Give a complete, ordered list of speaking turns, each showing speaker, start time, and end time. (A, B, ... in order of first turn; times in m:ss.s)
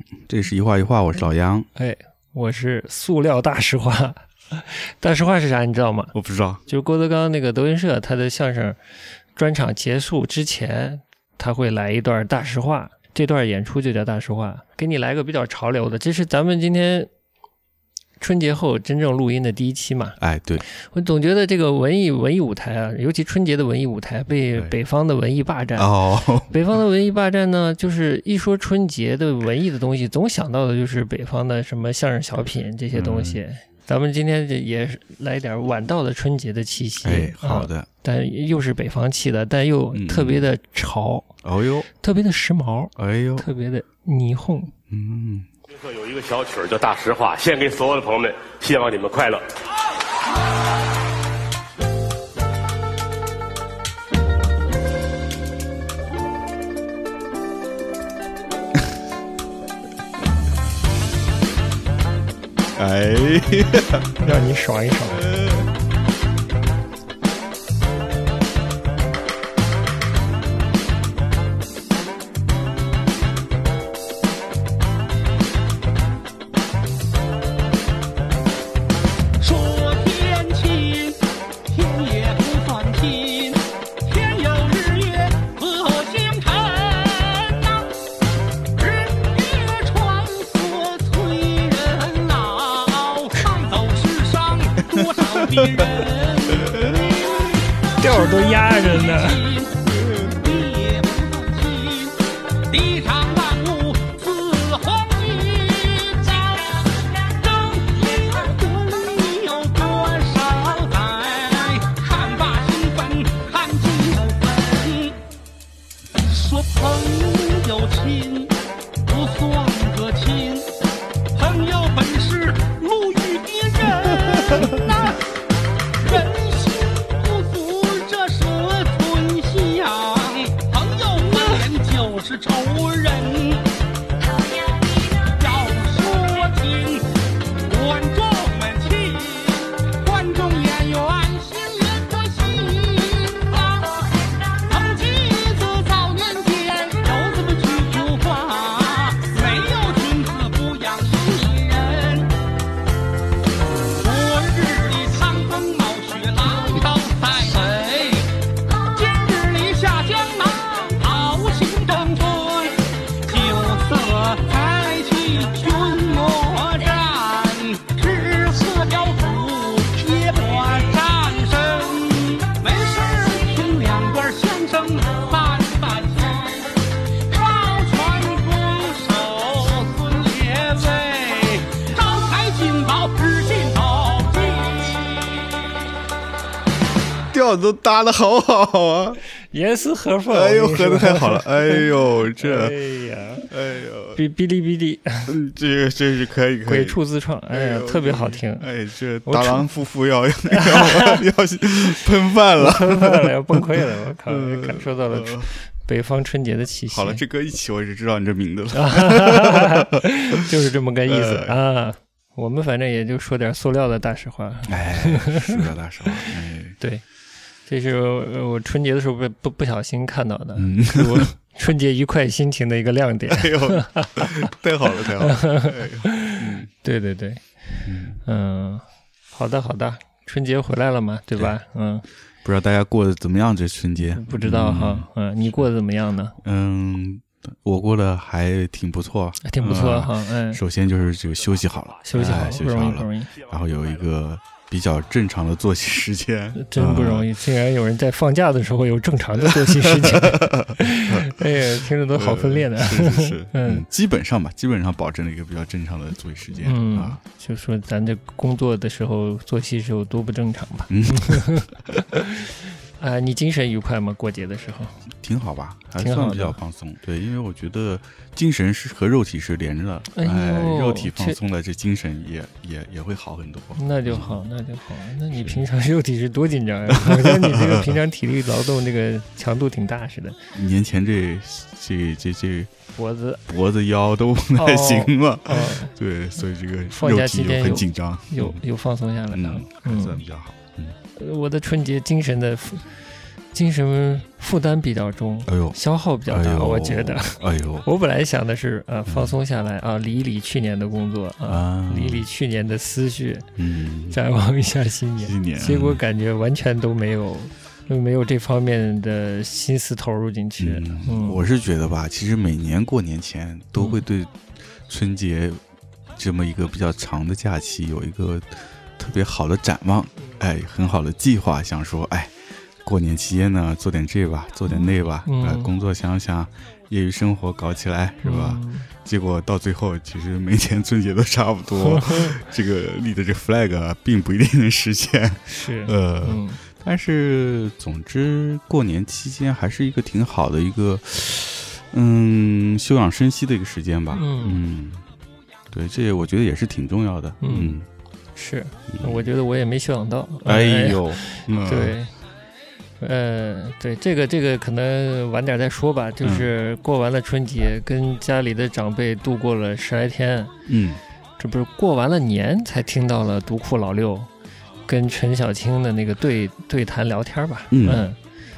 0:00.2-0:01.7 A
0:01.7-0:06.1 B
0:06.1-0:06.6 A
0:06.7-0:08.8 B
0:09.4-0:17.1 B
0:18.2-0:25.9 B
0:20.2-0:20.6 A
0:25.8-0:26.5 A
0:26.5-0:41.4 B
0:32.9-0:33.4 A
0:37.0-0:37.9 A
0:39.9-0:40.5 A
0:41.4-0:41.9 A
0:41.9-0:44.7 B
0:43.0-0:43.5 A
0:44.9-0:45.5 A
0:45.8-0:49.6 C
1:02.8-1:04.3 A
1:04.2-1:05.3 B
1:05.1-1:05.6 A
1:19.4-1:27.9 D
1:28.7-1:55.2 D
1:38.0-1:39.4 B
1:56.2-1:58.5 D
1:59.0-2:00.7 D
2:01.3-2:05.2 D
2:06.0-2:13.7 D
2:15.0-2:32.3 D
2:33.9-3:05.5 D
3:07.3-3:09.2 A
3:09.5-3:13.4 B
3:10.3-3:12.7 A
3:13.5-3:14.2 A
3:14.1-3:15.3 B
3:15.3-3:17.0 A
3:16.6-3:18.7 B
3:17.5-3:25.5 A
3:19.2-3:19.6 B
3:20.5-3:21.2 B
3:22.6-3:27.2 B
3:26.9-3:30.5 A
3:28.7-3:37.0 B
3:31.1-3:31.5 A
3:34.7-3:36.8 A
3:37.6-3:47.4 B
3:40.6-3:41.3 A
3:43.3-3:46.7 A
3:47.8-3:48.2 A
3:48.2-3:52.0 B
3:52.4-3:55.6 A
3:54.0-3:56.4 B
3:56.4-4:07.3 A
3:59.4-4:00.6 B
4:02.0-4:03.3 B
4:06.5-4:13.9 B
4:09.5-4:17.2 A
4:16.6-4:25.0 B
4:20.9-4:21.7 A
4:25.1-4:34.4 A
4:26.0-4:26.6 B
4:30.1-4:31.4 B
4:33.8-4:40.4 B
4:35.3-4:35.6 A
4:36.9-4:38.0 A
4:40.5-4:42.7 A
4:42.9-4:43.4 B
4:43.4-4:48.6 A
4:44.6-4:45.9 B
4:46.9-4:50.2 B
4:49.3-4:51.0 A
4:51.1-4:53.0 B
4:53.5-5:03.5 B
4:55.5-4:57.9 A
4:59.1-4:59.3 A
5:01.5-5:02.2 A
5:03.6-5:04.2 A
5:04.1-5:11.4 B
5:05.2-5:06.0 A
5:10.6-5:15.6 A
5:13.8-5:14.0 B
5:16.2-5:22.3 A
5:22.8-5:45.0 A
5:24.7-5:25.7 B
5:28.2-5:28.9 B
5:31.8-5:32.4 B
5:35.5-5:36.6 B
5:44.1-5:44.6 B
5:45.7-5:47.8 A
5:47.4-5:47.8 B
5:48.3-5:52.1 B
5:48.9-5:49.3 A
5:50.4-5:52.0 A
5:53.0-6:00.5 B
5:56.2-5:56.5 A
6:00.7-6:01.0 A
6:01.4-6:04.3 B
6:04.8-6:08.2 B
6:07.7-6:08.0 A